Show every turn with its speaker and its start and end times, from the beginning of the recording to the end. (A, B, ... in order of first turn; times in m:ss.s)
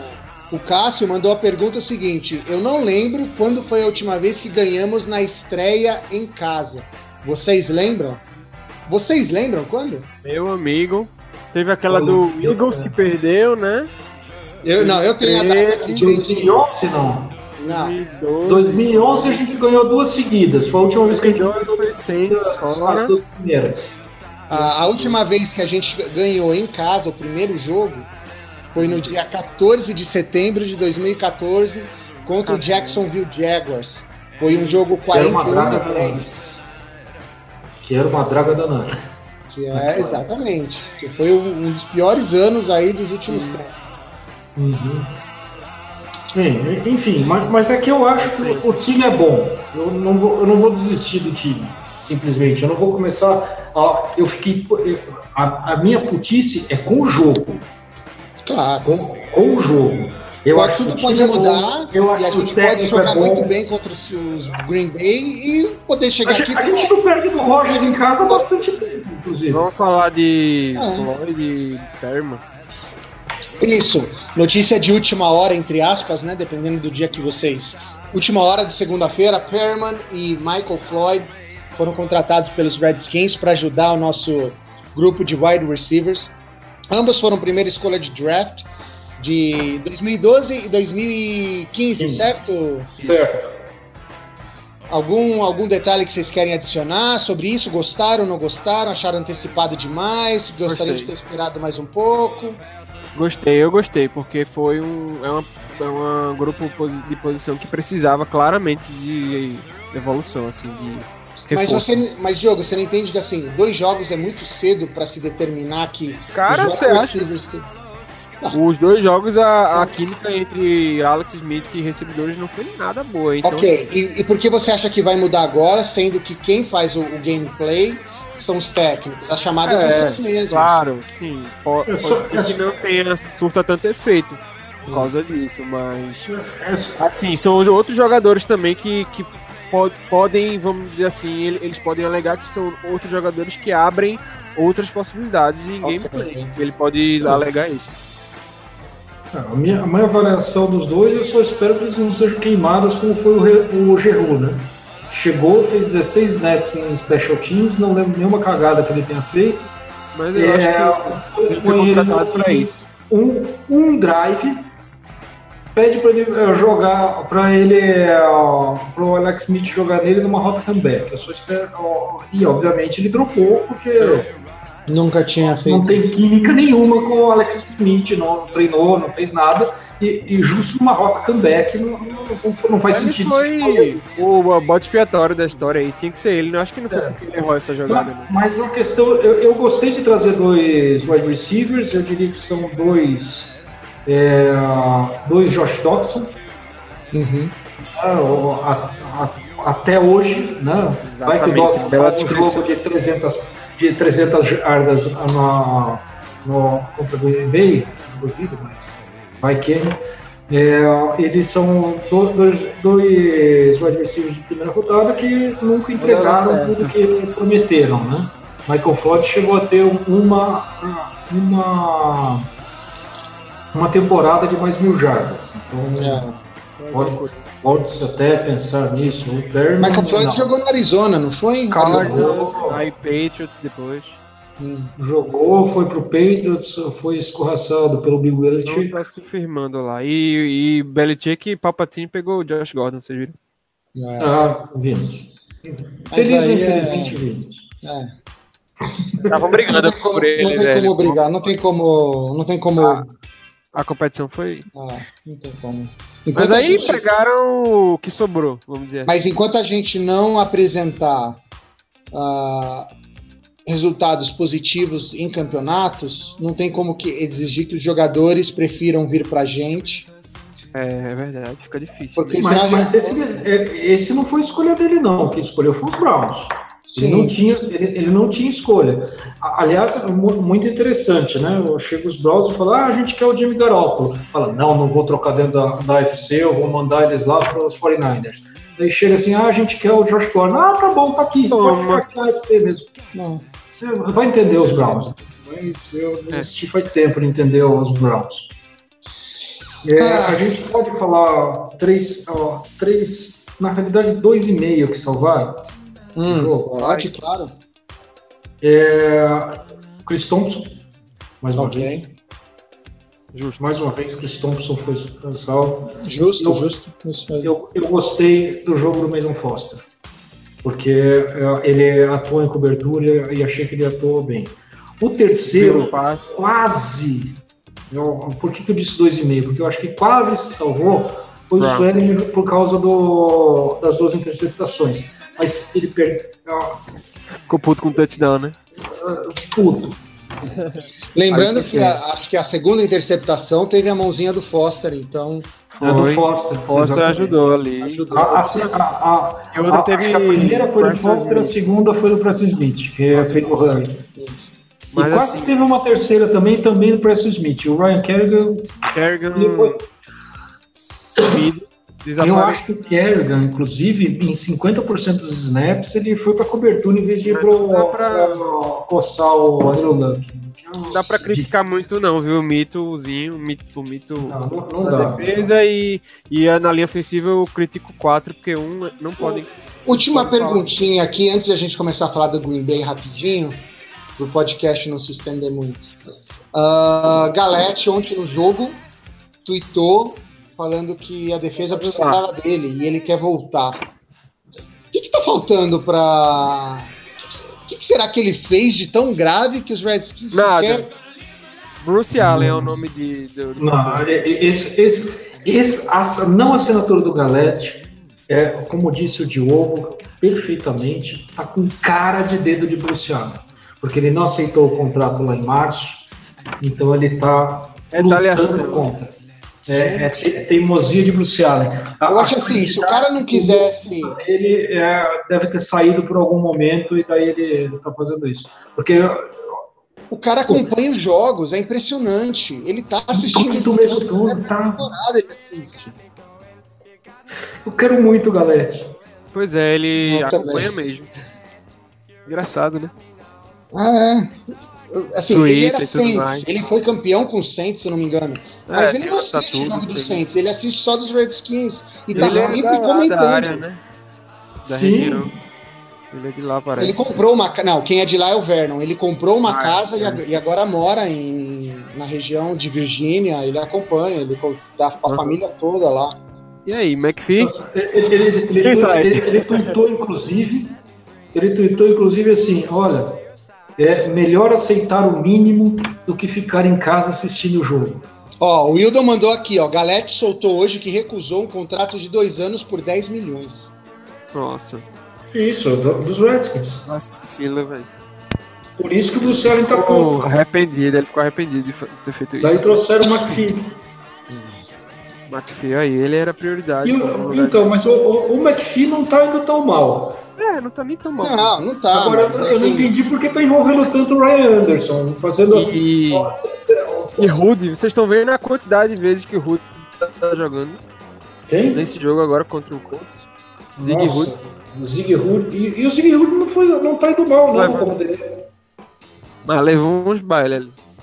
0:00.5-0:08.2 A
0:08.9-0:10.1 A
0:10.2-0:13.9 B
0:11.9-0:13.0 C
0:14.6-0:16.6 A
0:14.8-0:16.3 B
0:15.9-0:17.4 C
0:17.6-0:19.5 B
0:17.6-0:18.0 A
0:18.4-0:23.9 C
0:21.1-0:23.1 B
0:24.5-0:25.2 B
0:24.5-0:28.1 A
0:28.7-0:36.6 A
0:28.8-0:29.2 B
0:32.5-0:33.0 B
0:34.5-0:34.8 B
0:35.1-0:36.3 C
0:37.8-0:39.0 C
0:39.5-0:43.7 A
0:39.7-0:40.1 C
0:39.8-0:40.2 B
0:43.3-0:43.6 B
0:44.6-0:45.1 C
0:46.3-0:57.6 C
0:48.2-0:48.8 B
0:58.4-0:58.9 A
0:58.8-1:03.6 C
1:00.5-1:07.0 A
1:06.2-1:09.7 C
1:07.7-1:08.4 A
1:09.5-1:12.4 B
1:10.8-1:11.1 A
1:13.6-1:26.3 A
1:26.9-1:28.7 A
1:29.2-1:33.1 A
1:32.0-1:32.2 C
1:32.8-1:33.5 C
1:34.9-1:42.6 A
1:40.7-1:41.1 B
1:43.1-1:52.0 B
1:51.5-1:57.7 A
1:56.3-1:57.2 B
1:58.5-2:03.8 B
2:03.4-2:10.8 A
2:09.6-2:16.3 B
2:11.9-2:12.9 C
2:16.2-2:17.1 C
2:17.0-2:28.0 B
2:25.8-2:26.5 A
2:29.3-2:39.7 C
2:40.1-2:42.8 B
2:40.3-2:44.7 C
2:45.8-2:54.3 C
2:54.0-2:54.3 B
2:54.9-2:56.0 A
2:55.6-3:04.0 C
3:02.9-3:08.4 B
3:06.9-3:07.2 C
3:07.9-3:16.3 C
3:17.1-3:17.5 A
3:18.0-3:30.0 C
3:21.0-3:22.7 B
3:30.5-3:42.5 C
3:36.0-3:37.0 B
3:43.7-3:46.3 C
3:45.9-3:46.4 A
3:46.8-3:47.4 B
3:46.9-3:50.5 C
3:49.8-3:52.3 A
3:51.7-3:54.2 B
3:51.8-3:52.8 C
3:54.6-3:54.9 A
3:55.0-3:59.0 C
3:58.6-4:03.4 B
4:04.0-4:04.4 A
4:04.2-4:07.7 C
4:06.1-4:07.2 A
4:07.8-4:08.2 A
4:09.1-4:13.0 A
4:09.3-4:11.5 B
4:12.8-4:13.0 B
4:13.7-4:14.7 B
4:14.8-4:17.0 A
4:16.4-4:19.1 B
4:19.1-4:21.4 A
4:22.1-4:22.9 A
4:23.7-4:30.1 A
4:30.7-4:32.7 B
4:32.2-4:33.1 A
4:32.4-4:52.9 C
4:36.9-4:37.7 A
4:51.5-4:52.0 B
4:53.1-4:53.4 A
4:53.7-4:58.5 C
4:59.8-5:05.6 C
5:00.0-5:00.5 A
5:06.2-5:07.5 A
5:06.3-5:06.8 C
5:06.8-5:07.1 B
5:08.6-5:10.8 C
5:11.4-5:12.1 C
5:11.6-5:12.0 A
5:13.3-5:14.1 B
5:13.6-5:16.7 C
5:16.0-5:17.5 A
5:17.4-5:19.8 C
5:20.6-5:36.8 C
5:25.5-5:26.3 B
5:31.6-5:31.9 B
5:37.5-5:38.6 B
5:38.8-5:40.0 C
5:40.4-5:42.0 B
5:41.2-5:45.5 A
5:45.8-5:48.7 B
5:45.8-5:54.0 C
5:48.1-5:48.6 A
5:49.5-5:51.6 B
5:53.1-5:53.5 B
5:54.1-5:54.5 A
5:54.9-5:55.6 B
5:54.9-5:58.8 C
5:58.9-5:59.8 B
5:59.3-5:59.8 C
6:01.1-6:02.6 B
6:02.2-6:11.5 C
6:07.2-6:08.5 B
6:10.9-6:20.8 B
6:14.2-6:15.5 C
6:19.2-6:23.6 A
6:24.2-6:25.9 A
6:26.5-6:28.8 A
6:29.4-6:33.9 A
6:31.6-6:32.2 B
6:34.9-6:37.0 A
6:37.6-6:40.9 A
6:40.3-6:40.9 B
6:41.8-6:44.2 B
6:42.2-6:42.8 C
6:43.6-6:56.1 C
6:56.6-7:09.6 C
6:57.9-6:58.9 B
6:59.8-7:00.4 A
7:02.1-7:04.2 A
7:10.1-7:16.0 A
7:13.1-7:14.9 C
7:17.6-7:19.0 C
7:19.3-7:21.1 B
7:20.0-7:20.7 A
7:22.3-7:22.9 B
7:23.7-7:24.4 A
7:24.9-7:33.6 A
7:25.3-7:26.5 B
7:28.7-7:30.2 B
7:32.1-7:32.6 C
7:32.1-7:33.8 B
7:34.6-7:35.3 B
7:34.6-7:35.4 C
7:36.1-7:37.2 B
7:36.8-7:46.2 A
7:39.4-7:40.4 B
7:45.1-7:45.4 B
7:46.7-7:47.6 B
7:47.4-7:50.8 C
7:48.6-7:49.8 B
7:51.3-7:53.2 C
7:53.8-7:58.1 C
7:58.4-8:03.7 A
8:04.3-8:04.9 B
8:05.3-8:06.9 C
8:06.9-8:07.9 B
8:08.8-8:10.4 C
8:09.2-8:13.0 B
8:12.4-8:13.8 C
8:15.3-8:17.7 B
8:16.8-8:20.2 C
8:20.4-8:21.6 B
8:21.2-8:22.9 A
8:21.9-8:27.3 C
8:25.5-8:26.3 B
8:27.2-8:30.8 B
8:31.5-8:31.8 C
8:31.7-8:33.3 B
8:33.8-8:38.4 C
8:33.8-8:34.3 B
8:37.5-8:38.0 B
8:39.4-8:40.8 B